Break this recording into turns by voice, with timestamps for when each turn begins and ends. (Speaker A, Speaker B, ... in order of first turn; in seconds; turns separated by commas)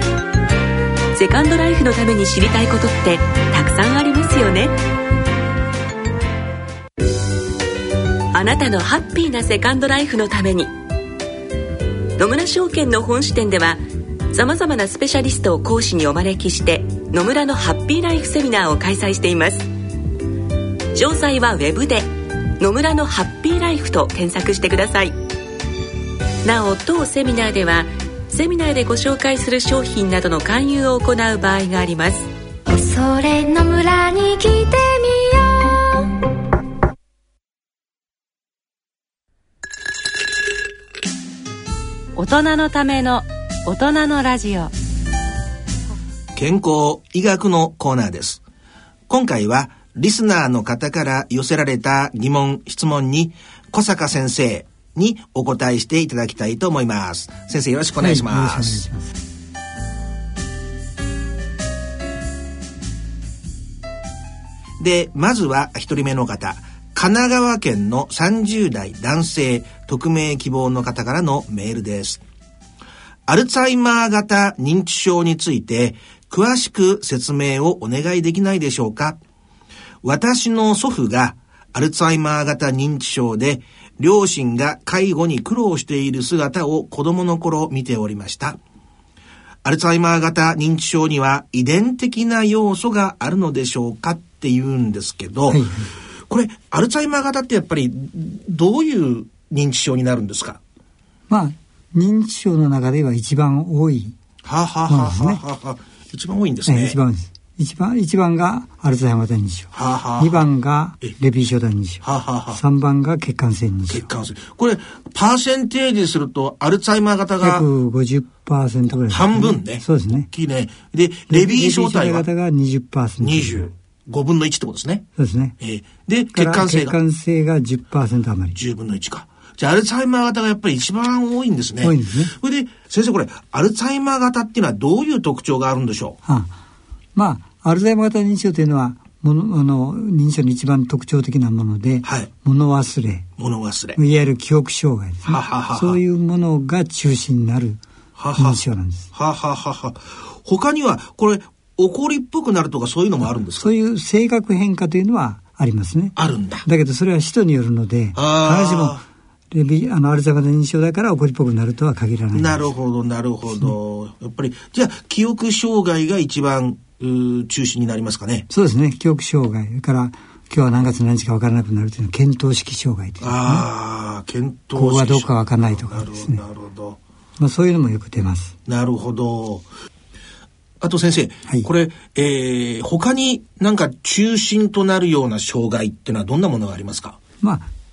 Speaker A: 1.1-4.8, Speaker A: 8.3-10.7, Speaker A: 12.2-19.7, Speaker A: 20.9-25.2, Speaker A: 26.4-32.3, Speaker B: 32.7-36.2, Speaker C: 42.2-44.7, Speaker D: 46.4-48.4, Speaker D: 49.1-58.8, Speaker E: 58.0-59.2, Speaker D: 64.8-72.2, Speaker D: 73.3-79.2, Speaker D: 80.0-88.6, Speaker D: 89.6-95.6, Speaker E: 95.5-95.9, Speaker D: 96.3-100.6, Speaker E: 101.3-104.2, Speaker D: 104.4-107.0, Speaker E: 104.9-105.4, Speaker E: 106.7-114.1, Speaker D: 109.7-110.5, Speaker D: 112.0-112.6, Speaker D: 113.9-117.7, Speaker E: 117.4-120.3, Speaker D: 119.1-122.3, Speaker E: 121.3-123.7, Speaker D: 123.2-125.1, Speaker E: 125.2-125.6, Speaker D: 125.6-127.0, Speaker E: 126.3-128.6, Speaker D: 128.6-136.2, Speaker E: 131.8-132.3, Speaker E: 136.3-136.5, Speaker E: 137.2-143.3, Speaker D: 142.0-142.3, Speaker D: 143.4-144.0, Speaker E: 144.0-147.8, Speaker D: 145.3-146.0, Speaker D: 148.2-148.6, Speaker E: 148.4-149.1, Speaker D: 149.1-153.7, Speaker E: 153.2-162.7, Speaker D: 156.2-156.7, Speaker D: 158.2-159.0, Speaker D: 162.3-168.5, Speaker E: 168.5-173.7, Speaker D: 173.2-177.0, Speaker E: 174.8-176.4, Speaker E: 177.4-178.5, Speaker D: 178.7-179.7, Speaker D: 180.8-187.2, Speaker E: 187.4-187.7